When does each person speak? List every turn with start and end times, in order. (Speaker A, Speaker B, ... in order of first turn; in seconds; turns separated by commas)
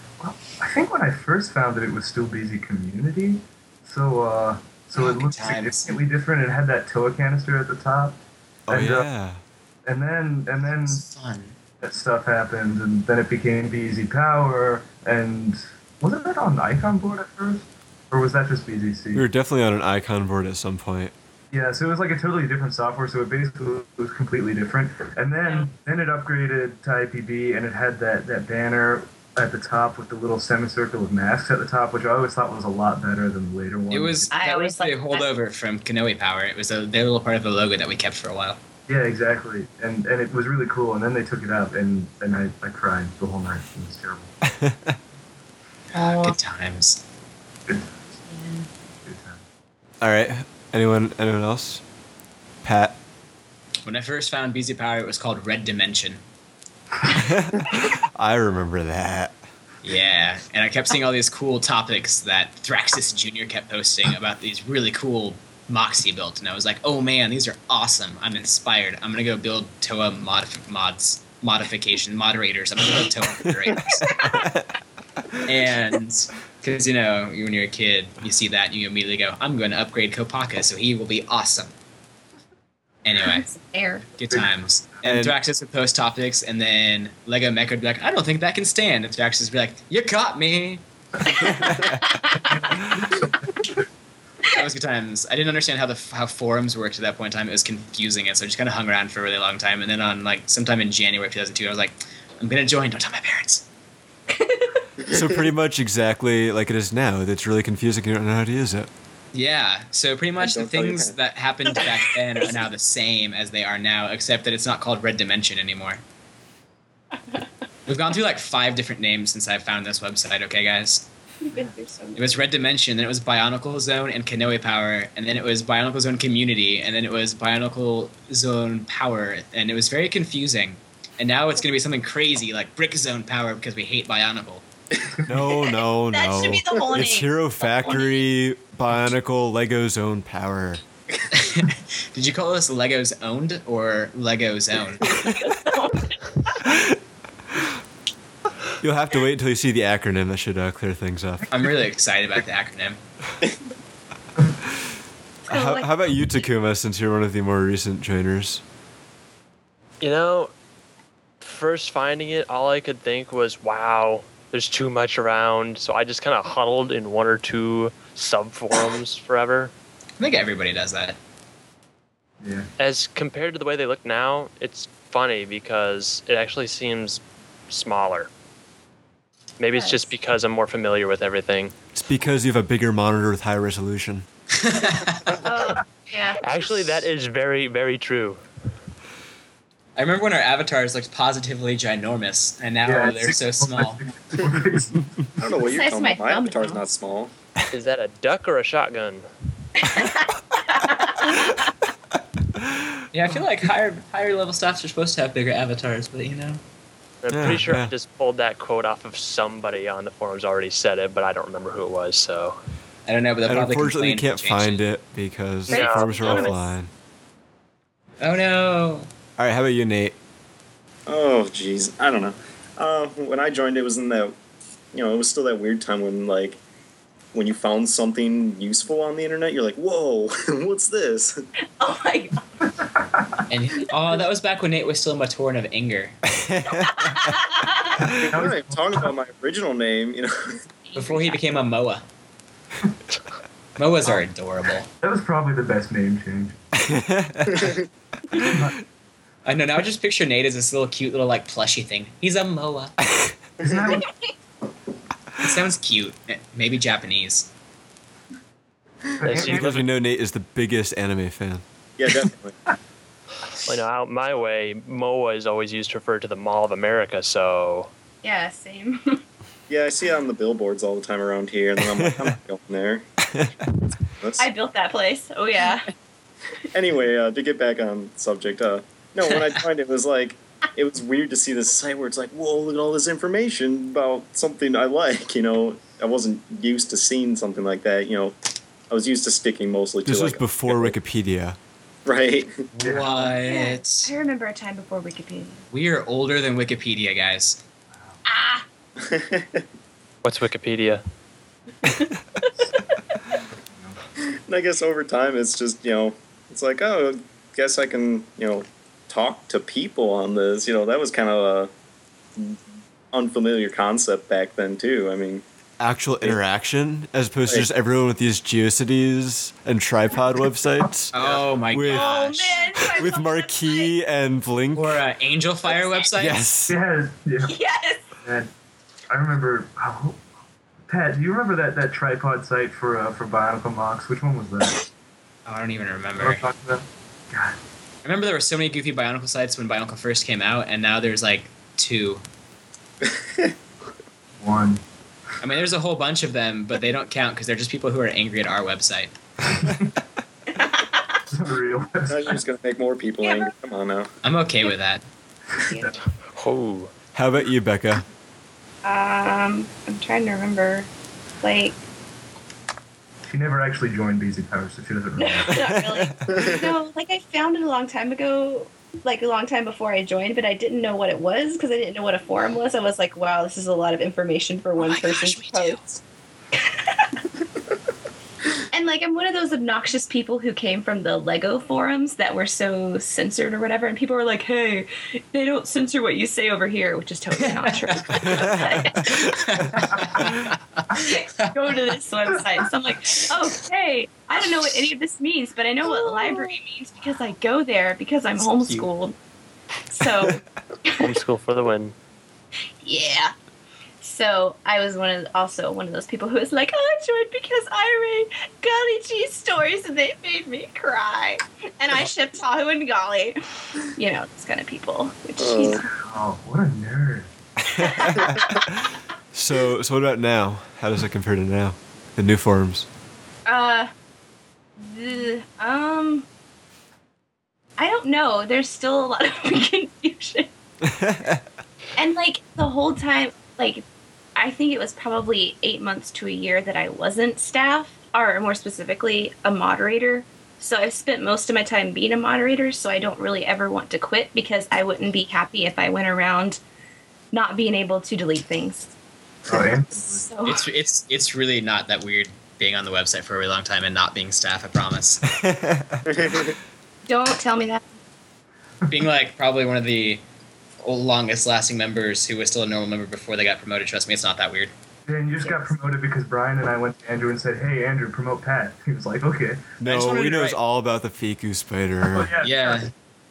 Speaker A: 0.2-9.1, Speaker B: 5.0-6.0, Speaker C: 8.7-9.4, Speaker A: 9.8-11.0, Speaker B: 10.6-11.6, Speaker A: 11.8-19.2, Speaker C: 19.1-21.1, Speaker A: 21.5-34.3, Speaker B: 33.9-38.6, Speaker D: 34.3-35.3, Speaker A: 38.9-44.3, Speaker C: 44.4-45.0, Speaker D: 45.9-46.4, Speaker B: 46.0-47.0, Speaker A: 47.7-48.1, Speaker D: 48.3-48.6, Speaker A: 49.0-49.4, Speaker C: 50.0-51.8, Speaker C: 52.6-53.0, Speaker B: 53.8-56.2, Speaker C: 57.1-59.4, Speaker B: 59.8-74.1, Speaker D: 74.0-74.5, Speaker C: 74.1-74.6, Speaker B: 75.4-81.7, Speaker B: 83.0-83.5, Speaker D: 83.2-84.0, Speaker B: 84.2-90.8, Speaker C: 85.0-85.3, Speaker D: 91.5-92.5, Speaker A: 92.4-93.8, Speaker B: 94.5-103.6, Speaker D: 104.3-104.8, Speaker C: 105.0-108.9, Speaker B: 109.3-116.0, Speaker E: 110.4-111.1, Speaker B: 117.9-121.1, Speaker D: 121.4-122.2, Speaker B: 122.2-134.6, Speaker A: 135.1-135.4, Speaker C: 135.3-140.8, Speaker D: 135.5-138.2, Speaker B: 141.3-145.2, Speaker D: 145.1-146.6, Speaker C: 146.7-146.9, Speaker C: 148.8-151.5, Speaker B: 151.5-153.0, Speaker D: 155.5-156.3, Speaker C: 155.5-158.6, Speaker F: 160.0-160.5, Speaker F: 161.4-169.7, Speaker B: 170.2-171.2, Speaker A: 172.4-172.7, Speaker F: 172.8-178.3, Speaker F: 179.6-181.7, Speaker D: 179.7-180.1, Speaker C: 181.9-184.2, Speaker B: 184.5-185.3, Speaker D: 185.4-186.4, Speaker F: 186.4-188.4, Speaker B: 189.9-194.0, Speaker A: 192.8-195.3, Speaker E: 195.4-197.3, Speaker D: 195.6-196.8, Speaker F: 197.7-199.2, Speaker D: 199.8-201.7, Speaker B: 203.1-206.6, Speaker F: 207.2-212.6, Speaker C: 207.3-207.9, Speaker B: 213.1-214.8, Speaker C: 213.4-216.9, Speaker D: 215.7-216.7, Speaker F: 215.7-216.1, Speaker B: 218.2-219.1, Speaker C: 219.4-220.2, Speaker E: 221.1-224.3, Speaker E: 224.9-226.6, Speaker E: 227.3-231.4, Speaker D: 231.8-232.4, Speaker A: 232.8-233.4, Speaker B: 233.5-236.2, Speaker C: 236.3-237.3, Speaker D: 236.7-238.0, Speaker A: 238.0-239.1, Speaker E: 238.2-240.6, Speaker D: 240.8-241.4, Speaker B: 240.9-242.0, Speaker B: 243.8-244.9, Speaker A: 245.0-246.6, Speaker C: 246.8-247.7, Speaker E: 247.5-247.8, Speaker C: 248.3-248.7, Speaker A: 248.4-248.8, Speaker B: 249.4-252.9, Speaker A: 253.6-254.1, Speaker E: 253.6-254.0, Speaker D: 254.0-254.3, Speaker B: 255.4-257.5, Speaker A: 259.2-259.8, Speaker F: 259.2-259.9, Speaker C: 259.3-261.6, Speaker E: 262.0-262.6, Speaker F: 263.6-267.9, Speaker D: 268.2-269.2, Speaker E: 269.7-273.1, Speaker C: 271.8-272.4, Speaker E: 274.2-274.5, Speaker D: 274.4-275.9, Speaker E: 276.7-288.4, Speaker E: 288.9-290.9, Speaker C: 290.0-291.6, Speaker E: 292.1-292.6, Speaker B: 292.7-294.1, Speaker A: 292.8-293.4, Speaker D: 293.4-295.6, Speaker B: 295.7-297.6, Speaker D: 298.2-298.6, Speaker E: 299.0-299.6, Speaker F: 300.2-301.0, Speaker D: 301.8-302.5, Speaker A: 303.7-304.0, Speaker E: 304.5-311.7, Speaker E: 313.1-315.4, Speaker C: 315.8-321.2, Speaker B: 321.1-322.7, Speaker C: 321.7-322.2, Speaker D: 321.9-323.9, Speaker C: 322.8-325.0, Speaker B: 324.7-326.4, Speaker D: 325.7-326.0, Speaker C: 326.2-326.8, Speaker A: 326.7-327.5, Speaker D: 327.4-328.1, Speaker A: 328.2-328.5, Speaker A: 329.1-330.2, Speaker A: 330.9-334.8, Speaker B: 335.4-336.4, Speaker A: 336.2-337.6, Speaker B: 338.0-342.2, Speaker E: 343.0-343.5, Speaker A: 344.4-344.8, Speaker B: 345.4-349.1, Speaker A: 349.5-349.9, Speaker D: 350.5-351.2, Speaker A: 351.3-352.4, Speaker E: 352.1-354.1, Speaker D: 353.2-353.5, Speaker B: 354.2-355.0, Speaker A: 355.6-356.0, Speaker D: 355.7-355.9, Speaker F: 356.3-356.9, Speaker C: 357.1-358.0, Speaker D: 358.8-360.9, Speaker D: 361.4-361.8, Speaker A: 363.3-365.7, Speaker D: 365.1-375.8, Speaker C: 365.5-366.3, Speaker E: 366.3-366.7, Speaker B: 374.8-376.0, Speaker D: 376.5-377.2, Speaker D: 378.7-389.4, Speaker B: 387.4-391.5, Speaker D: 390.9-399.1, Speaker D: 399.9-401.1, Speaker F: 400.9-401.9, Speaker D: 402.8-403.3, Speaker D: 404.0-415.9, Speaker E: 415.4-415.8, Speaker A: 415.9-417.3, Speaker D: 417.7-418.3, Speaker C: 417.8-422.9, Speaker D: 423.4-423.9, Speaker D: 424.8-426.2, Speaker D: 427.8-430.5, Speaker C: 430.8-431.4, Speaker D: 431.9-433.8, Speaker D: 434.4-446.6, Speaker D: 447.3-448.9, Speaker A: 449.5-450.3, Speaker D: 449.9-450.6, Speaker B: 450.4-455.2, Speaker C: 455.3-456.0, Speaker E: 456.1-456.5, Speaker D: 457.1-457.9, Speaker B: 458.9-460.2, Speaker B: 460.8-464.7, Speaker A: 465.1-469.6, Speaker D: 465.4-465.7, Speaker C: 469.8-472.3, Speaker B: 469.8-470.6, Speaker A: 472.1-472.9, Speaker B: 472.4-472.9